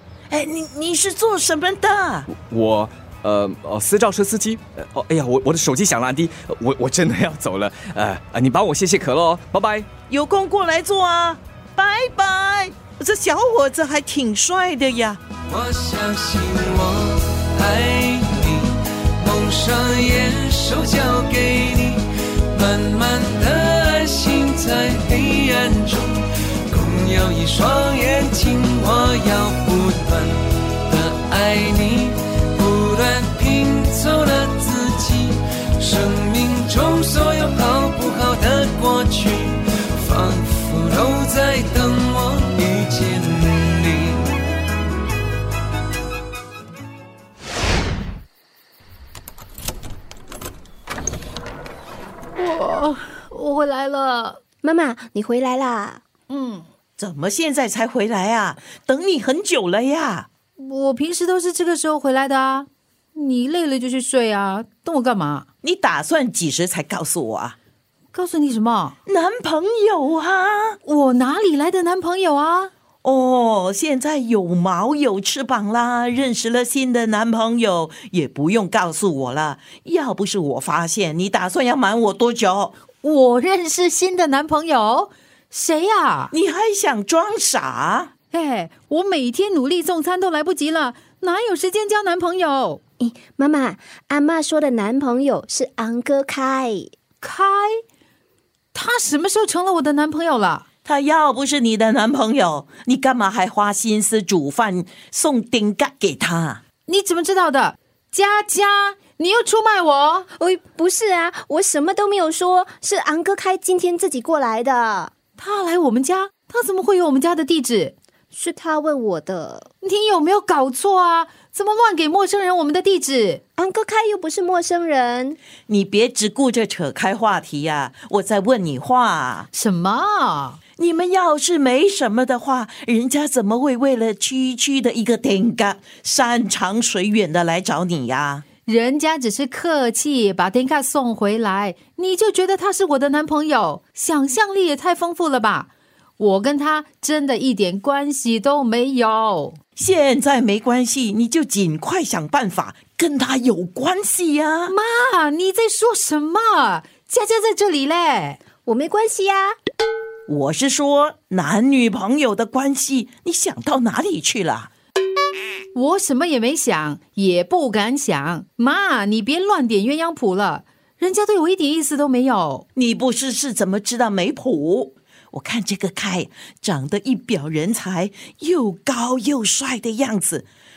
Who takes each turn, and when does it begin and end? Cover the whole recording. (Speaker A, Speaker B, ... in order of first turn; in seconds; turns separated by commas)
Speaker A: 0.3-2.3, Speaker B: 2.3-9.9, Speaker A: 10.1-15.2, Speaker C: 15.5-44.3, Speaker D: 52.4-54.4, Speaker E: 54.6-56.0, Speaker D: 56.3-56.6, Speaker A: 57.0-60.3, Speaker D: 60.6-65.5, Speaker A: 65.6-67.6, Speaker D: 68.1-69.0, Speaker A: 69.1-70.8, Speaker D: 70.8-72.7, Speaker A: 73.0-82.8, Speaker D: 83.0-86.3, Speaker A: 86.3-88.1, Speaker D: 88.3-92.8, Speaker E: 93.0-96.9, Speaker D: 97.2-97.8, Speaker D: 98.7-100.7, Speaker A: 100.9-106.6, Speaker D: 106.9-110.3, Speaker E: 110.3-115.1, Speaker D: 115.4-118.0, Speaker E: 118.3-119.7, Speaker D: 119.8-123.4, Speaker E: 123.6-125.4, Speaker A: 125.7-129.5, Speaker D: 129.5-130.6, Speaker A: 130.8-138.4, Speaker D: 138.7-149.6, Speaker A: 149.8-154.7, Speaker D: 154.7-158.4, Speaker E: 158.7-159.6, Speaker A: 160.3-164.7, Speaker D: 165.7-172.7, Speaker A: 172.8-180.5